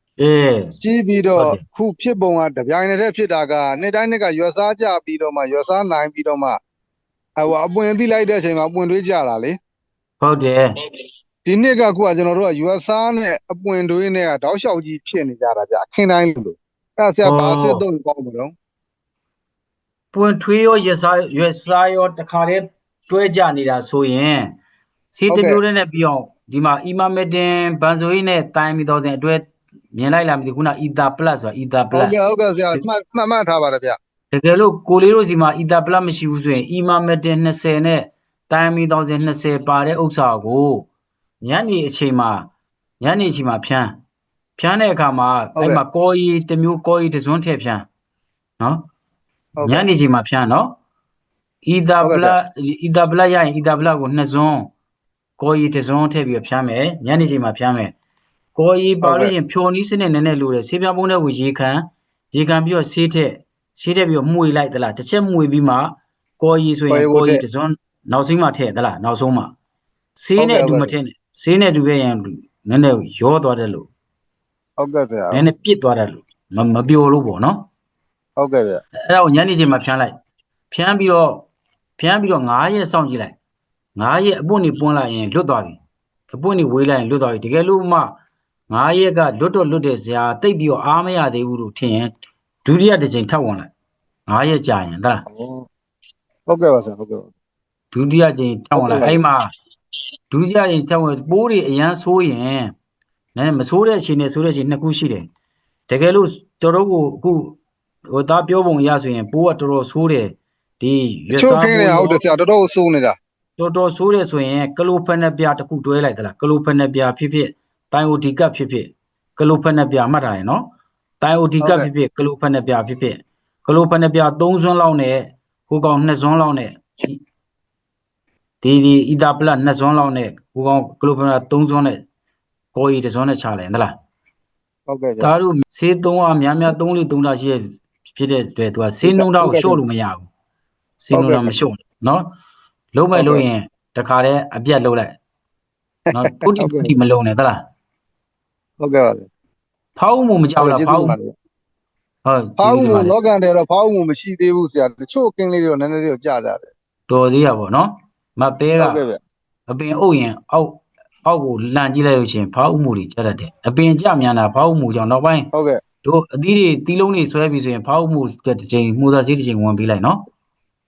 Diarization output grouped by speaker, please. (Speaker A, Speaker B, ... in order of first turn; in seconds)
Speaker A: 0.2-0.8, 1.4-1.6, 10.2-10.7, 17.2-17.8, 20.1-24.6, 25.1-32.2, 34.3-40.9, 41.4-42.5, 43.0-43.9, 44.6-47.9, 48.6-48.9, 49.6-50.7, 51.7-54.7, 55.4-57.9, 58.6-69.5, 70.2-73.9, 75.3-77.7, 79.1-80.1, 80.7-81.5, 82.0-83.3, 84.0-85.8, 86.3-88.2, 88.7-92.1, 92.7-93.7, 94.3-95.2, 97.9-99.5, 100.3-102.7, 103.4-105.3, 105.9-107.6, 108.1-112.2, 113.6-120.7, 121.2-127.2, 128.6-132.0, 132.7-133.9, 135.2-140.3, 141.0-142.3, 142.9-145.2, 146.1-147.6, 150.0-151.2, 152.2-153.2, 157.1-159.0, 159.7-165.5, 166.0-170.2
Speaker B: 0.8-6.6, 7.4-9.6, 11.5-18.5, 25.3-25.6, 31.9-34.0, 49.6-49.9, 52.0-52.4, 59.0-59.3, 66.9-67.4, 70.4-70.9, 74.8-75.4, 78.4-78.8, 95.3-95.7, 96.5-97.3, 98.8-99.2, 111.3-113.2, 121.6-121.9, 134.9-135.3, 139.1-139.8, 141.1-141.5, 143.2-143.4, 146.6-146.9, 148.8-149.3, 150.6-151.3, 152.6-156.7, 158.8-159.2, 165.5-165.8